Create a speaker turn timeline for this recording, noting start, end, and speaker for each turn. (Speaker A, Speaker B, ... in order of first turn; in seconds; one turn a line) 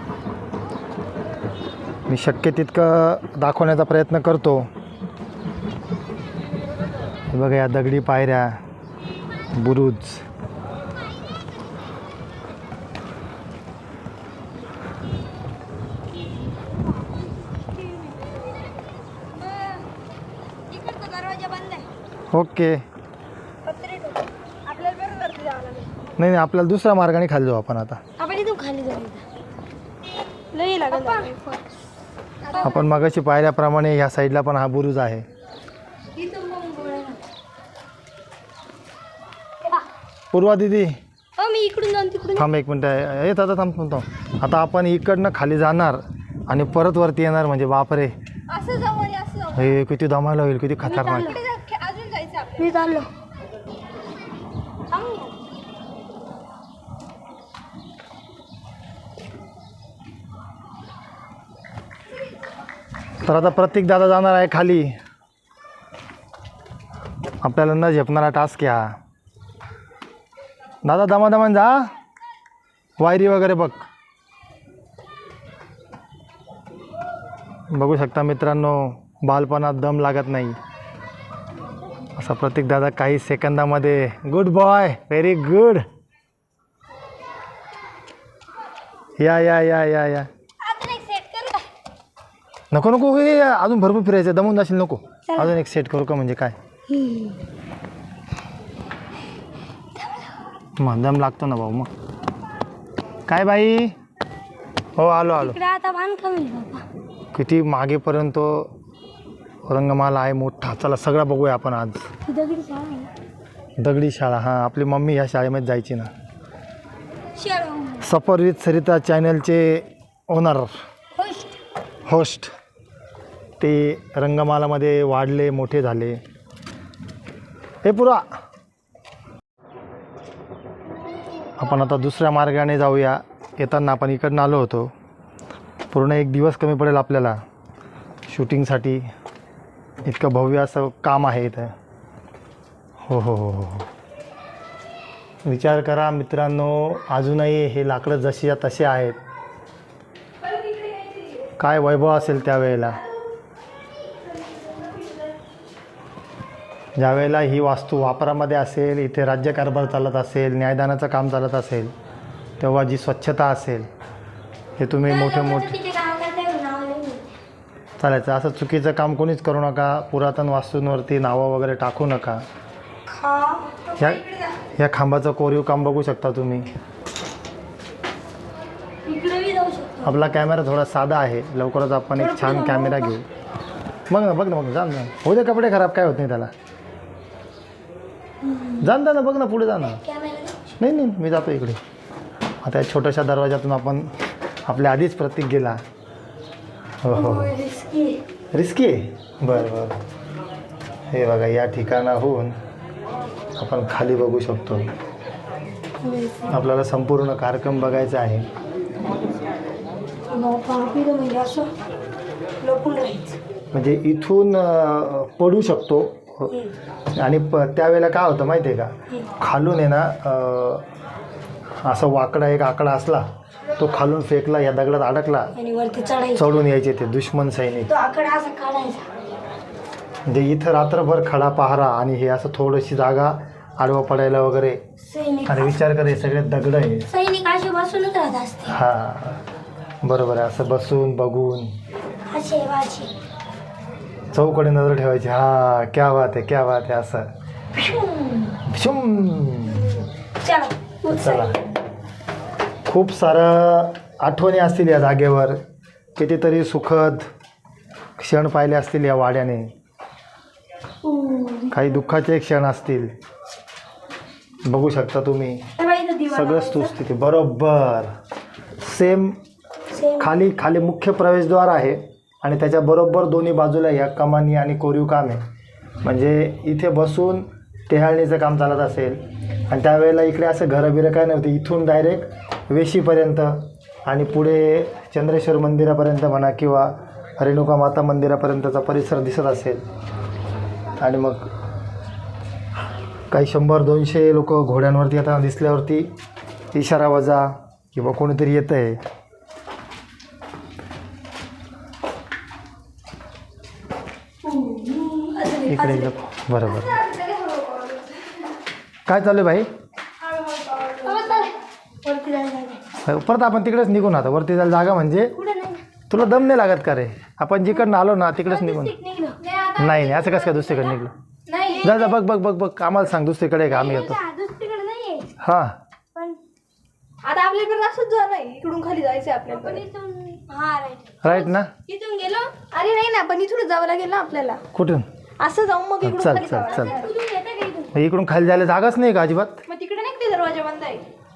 Speaker A: 2.1-4.7
Speaker A: 7.3-8.6
Speaker A: 9.5-10.2
Speaker B: 17.0-18.4
Speaker B: 19.3-19.9
Speaker B: 20.7-21.9
Speaker A: 22.3-22.8
Speaker B: 23.7-24.2
Speaker C: 24.6-25.9
Speaker A: 26.1-28.0
Speaker B: 28.2-29.2
Speaker B: 30.5-31.6
Speaker C: 30.6-31.4
Speaker C: 32.5-32.7
Speaker A: 32.6-35.2
Speaker B: 36.1-37.2
Speaker A: 40.3-41.0
Speaker B: 41.4-42.5
Speaker A: 42.4-48.1
Speaker C: 48.5-49.7
Speaker A: 49.5-51.3
Speaker B: 50.8-51.4
Speaker C: 51.3-52.6
Speaker B: 52.6-53.1
Speaker B: 54.9-55.3
Speaker A: 63.2-65.0
Speaker A: 67.4-69.0
Speaker A: 70.8-71.9
Speaker A: 73.0-73.8
Speaker A: 77.7-80.6
Speaker A: 82.2-85.8
Speaker A: 89.2-90.3
Speaker B: 90.6-91.7
Speaker A: 92.7-96.5
Speaker B: 95.3-95.5
Speaker B: 96.9-97.4
Speaker B: 100.0-100.3
Speaker A: 100.8-101.9
Speaker A: 103.3-103.9
Speaker A: 105.0-105.6
Speaker B: 105.3-106.8
Speaker A: 107.3-108.7
Speaker A: 109.6-112.1
Speaker B: 112.2-113.1
Speaker A: 113.8-116.1
Speaker B: 117.3-118.1
Speaker A: 118.0-120.7
Speaker B: 121.2-121.5
Speaker A: 122.0-122.5
Speaker A: 123.6-126.2
Speaker A: 127.8-128.2
Speaker A: 131.6-134.9
Speaker A: 135.9-137.4
Speaker A: 138.3-139.1
Speaker A: 140.0-141.7
Speaker A: 143.1-143.9
Speaker A: 145.4-149.2
Speaker C: 150.5-151.5
Speaker A: 151.6-153.0
Speaker A: 156.9-161.9
Speaker A: 162.6-163.9
Speaker A: 164.8-165.7
Speaker B: 165.0-167.2
Speaker A: 168.0-172.4
Speaker B: 173.1-173.9
Speaker A: 174.0-174.2
Speaker A: 174.7-176.7
Speaker B: 179.1-180.1
Speaker A: 180.0-183.2
Speaker B: 182.1-183.2
Speaker A: 184.1-186.5
Speaker B: 188.4-188.9
Speaker A: 188.8-190.0
Speaker B: 189.9-190.7
Speaker A: 190.8-191.8
Speaker A: 192.6-194.1
Speaker A: 194.7-195.8
Speaker A: 197.0-197.6
Speaker B: 197.1-198.2
Speaker A: 198.5-200.0
Speaker A: 201.1-202.6
Speaker A: 203.6-204.9
Speaker B: 206.0-206.5
Speaker A: 206.5-208.5
Speaker B: 210.3-211.7
Speaker B: 212.6-213.4
Speaker A: 213.7-216.5
Speaker A: 217.1-220.8
Speaker A: 221.8-223.2
Speaker A: 223.8-225.5
Speaker B: 225.5-226.5
Speaker A: 226.3-227.9
Speaker B: 227.9-229.1
Speaker A: 230.2-234.8
Speaker B: 235.0-235.8
Speaker A: 235.5-237.1
Speaker B: 237.1-238.8
Speaker A: 238.7-239.4
Speaker A: 240.0-241.7
Speaker B: 242.3-243.1
Speaker A: 244.3-247.3
Speaker B: 247.8-248.6
Speaker A: 248.7-250.0
Speaker B: 249.9-251.6
Speaker A: 251.1-251.6
Speaker A: 252.8-255.6
Speaker A: 256.1-257.2
Speaker A: 258.2-259.7
Speaker B: 261.0-261.8
Speaker A: 261.7-263.1
Speaker A: 264.6-265.6
Speaker B: 265.8-266.9
Speaker A: 266.3-268.1
Speaker A: 268.8-269.4
Speaker B: 269.9-270.3
Speaker A: 270.2-275.4
Speaker A: 276.0-289.8
Speaker A: 291.0-291.5
Speaker A: 293.3-296.1
Speaker A: 296.7-299.0
Speaker B: 304.4-306.1
Speaker A: 305.7-307.0
Speaker C: 306.8-308.1
Speaker A: 309.1-309.7
Speaker C: 310.2-311.5
Speaker B: 311.0-312.8
Speaker A: 313.0-315.3
Speaker B: 315.3-315.8
Speaker A: 316.1-318.9
Speaker B: 318.4-319.4
Speaker C: 319.4-320.5
Speaker A: 319.8-321.1
Speaker C: 321.5-322.1
Speaker A: 321.8-324.2
Speaker B: 323.7-325.3
Speaker A: 325.4-325.8
Speaker C: 327.2-329.8
Speaker B: 329.5-332.5
Speaker A: 331.2-331.7
Speaker C: 332.6-334.6
Speaker A: 334.7-335.1
Speaker C: 335.4-337.1
Speaker A: 336.0-336.9
Speaker B: 336.4-337.9
Speaker A: 337.9-339.6
Speaker C: 339.7-341.0